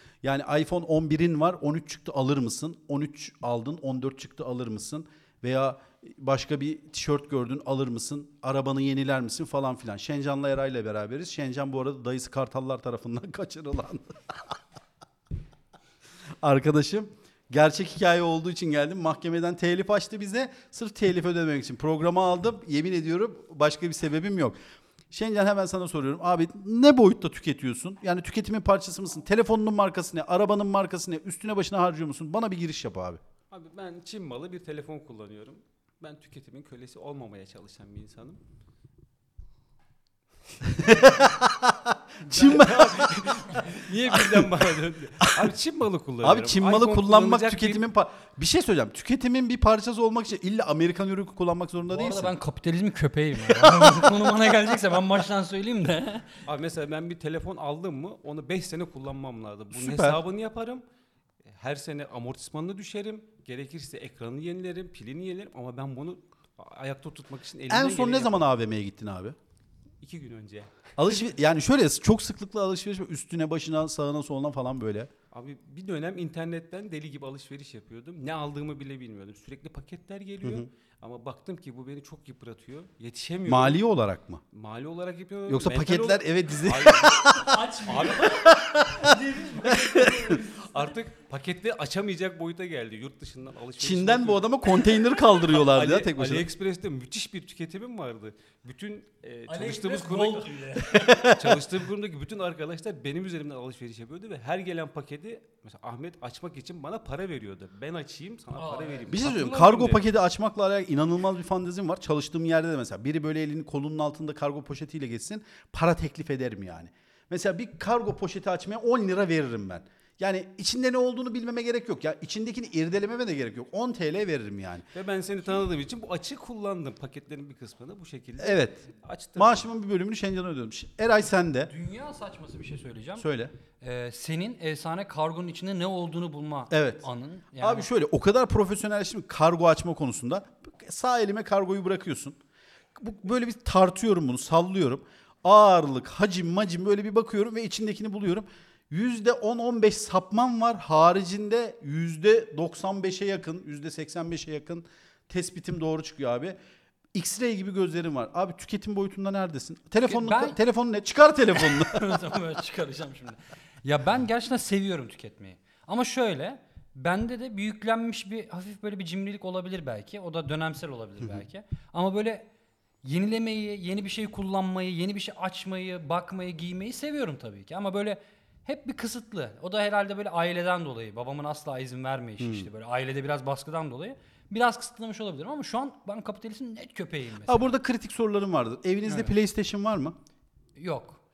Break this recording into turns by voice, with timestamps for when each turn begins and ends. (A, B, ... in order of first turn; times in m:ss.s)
0:00.2-0:14.1 A
0:16.4-0:24.6 A
0:25.1-0:33.2 A
0:33.5-0:38.4 B
0:40.6-0:43.3 A
0:42.3-0:47.8 B
0:45.2-0:45.4 A
0:46.2-0:52.3 A
0:51.9-0:56.4 C
0:53.7-0:54.0 A
0:56.4-1:00.8 B
0:59.7-1:00.2 A
1:01.4-1:08.5 B
1:07.7-1:09.4 A
1:10.0-1:11.3 B
1:11.0-1:15.1 A
1:15.3-1:23.8 B
1:23.4-1:24.4 A
1:24.5-1:27.1 B
1:25.5-1:27.5 A
1:27.1-1:30.9 C
1:27.8-1:28.4 B
1:28.2-1:30.4 A
1:30.3-1:34.7 B
1:33.8-1:36.4 A
1:35.3-1:50.1 B
1:39.5-1:41.4 C
1:40.8-1:41.6 A
1:48.5-1:50.0 C
1:49.1-2:04.9 A
2:04.9-2:09.7 B
2:08.4-2:08.8 A
2:09.4-2:11.7 A
2:11.7-2:13.3 C
2:13.2-2:13.5 A
2:13.8-2:17.9 C
2:16.7-2:17.0 A
2:17.6-2:22.4 A
2:22.9-2:36.6 A
2:37.1-2:42.2 A
2:40.0-2:40.6 C
2:41.5-2:52.4 C
2:53.0-3:07.8 C
3:02.4-3:02.7 A
3:07.4-3:10.2 A
3:09.0-3:09.3 C
3:10.8-3:11.2 C